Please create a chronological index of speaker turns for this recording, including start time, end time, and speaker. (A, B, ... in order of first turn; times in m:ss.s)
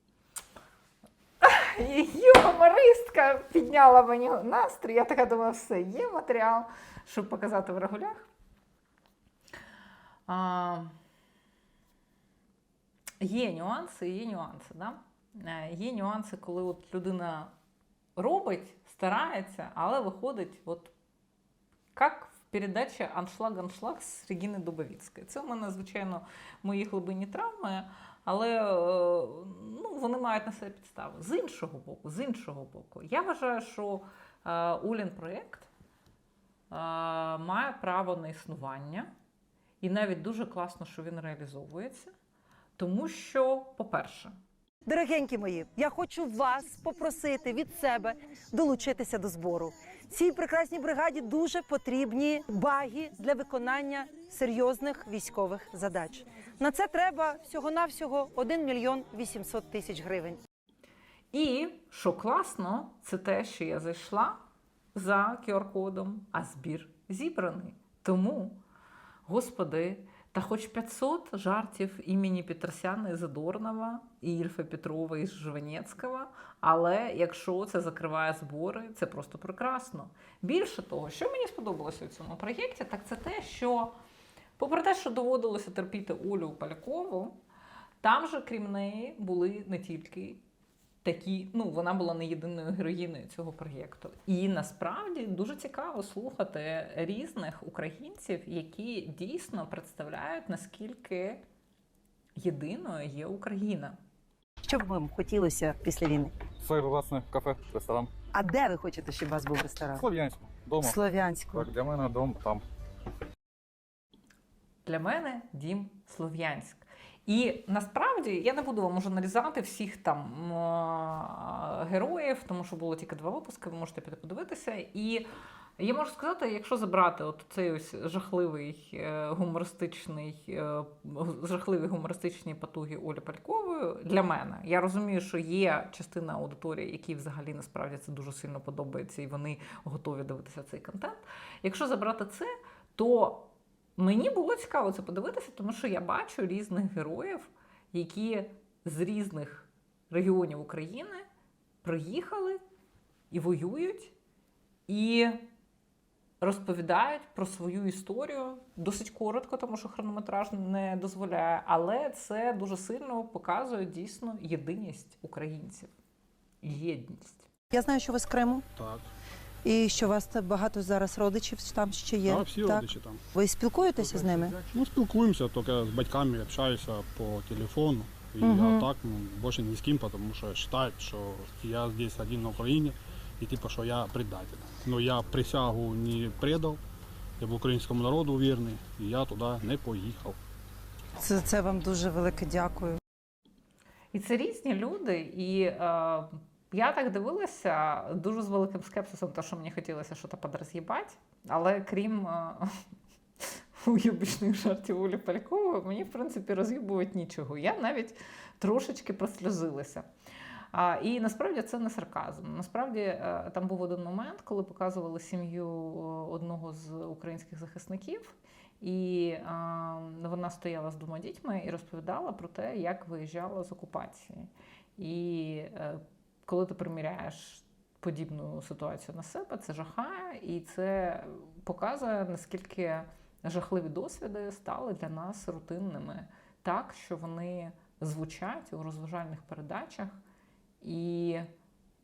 0:01.4-0:08.2 A
0:10.3-0:10.9 A
0:13.2-0:17.5 A
0:18.2-0:20.9 A
0:21.9-0:35.7 A
0:36.7-0:39.1 A
0:39.8-0:42.1 A
0:42.8-0:44.3 A
0:44.8-1:00.4 B
1:01.3-1:04.4 A
1:04.9-1:08.6 A
1:09.3-1:23.9 A
1:24.6-1:27.4 A
1:28.0-1:30.4 A
1:31.0-1:41.4 A
1:42.4-1:44.0 A
1:44.6-1:46.3 B
1:46.6-1:48.1 C
1:48.3-1:50.0 B
1:50.0-1:51.0 C
1:50.8-1:51.7 B
1:51.5-1:52.6 C
1:54.8-2:05.2 A
2:05.8-2:31.2 A
2:31.8-2:32.6 A
2:33.3-2:34.1 A
2:34.9-2:35.4 A
2:36.4-2:45.9 A
2:46.6-2:47.5 A
2:47.7-2:48.6 B
2:48.7-2:49.1 D
2:49.6-2:54.6 B
2:52.2-2:53.2 D
2:54.6-3:06.8 D
2:58.4-2:58.9 B
3:07.4-3:10.4 D
3:11.2-3:13.0 B
3:14.1-3:22.7 A
3:23.8-3:30.1 A
3:30.7-4:00.2 A
4:00.8-4:01.5 A